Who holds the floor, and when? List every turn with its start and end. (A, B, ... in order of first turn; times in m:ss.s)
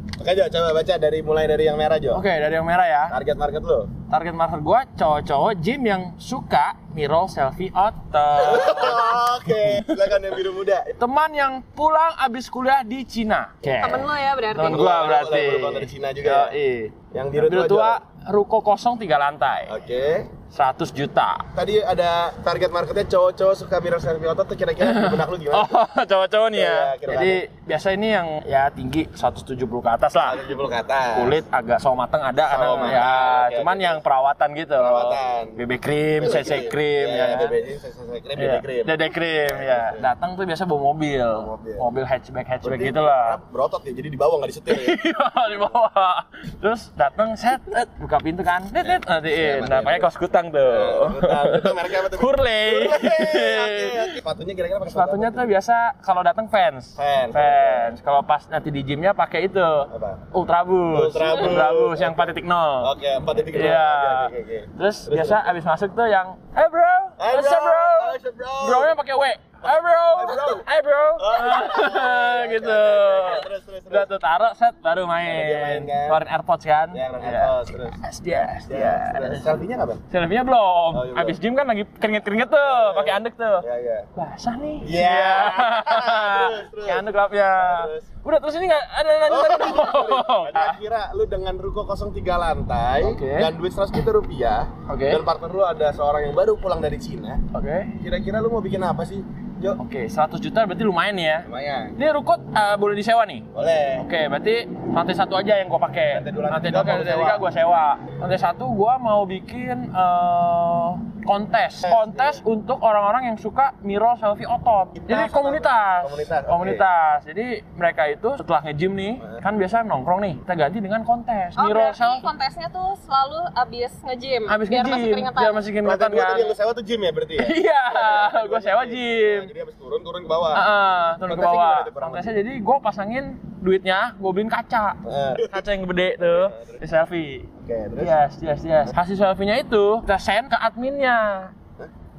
0:00.2-0:02.2 A
0:02.1-0:03.2 B
0:03.1-0:03.9 A
0:04.1-0:10.2 B
0:08.4-0:11.0 A
0:11.0-0:19.7 B
0:13.8-0:14.9 C
0:14.6-0:16.6 A
0:17.1-0:18.0 A
0:19.7-0:20.3 A
0:20.5-0:21.5 B
0:21.5-0:25.7 A
0:24.8-0:30.6 B
0:26.5-0:27.4 A
0:30.2-0:31.4 A
0:31.1-0:37.6 B
0:32.4-0:34.0 A
0:34.8-0:35.6 A
0:36.2-0:40.1 A
0:38.4-0:43.4 B
0:41.3-0:41.9 A
0:42.6-0:45.0 A
0:44.7-0:54.2 B
0:48.8-0:50.1 A
0:50.6-0:55.5 A
0:54.9-1:02.9 B
0:57.0-0:58.0 A
0:59.9-1:00.2 A
1:00.9-1:05.5 A
1:03.5-1:19.5 B
1:07.2-1:08.9 A
1:10.1-1:10.7 A
1:11.2-1:14.1 A
1:15.2-1:16.2 A
1:16.9-1:18.0 A
1:18.7-1:20.0 A
1:20.1-1:30.8 B
1:20.9-1:21.4 A
1:22.6-1:24.1 A
1:24.8-1:28.1 A
1:29.2-1:37.4 A
1:33.0-1:33.5 B
1:34.9-1:35.2 B
1:37.5-1:38.0 B
1:38.0-1:39.8 A
1:39.8-1:43.5 B
1:41.4-1:42.0 A
1:43.5-1:44.1 A
1:44.0-2:02.3 B
1:46.1-1:47.5 A
1:51.8-1:52.4 A
1:55.0-1:56.9 A
2:01.6-2:05.6 C
2:04.5-2:06.6 B
2:05.8-2:10.7 A
2:07.4-2:09.5 B
2:10.5-2:21.5 B
2:11.3-2:12.4 A
2:15.0-2:15.6 A
2:16.2-2:16.8 A
2:17.6-2:18.2 A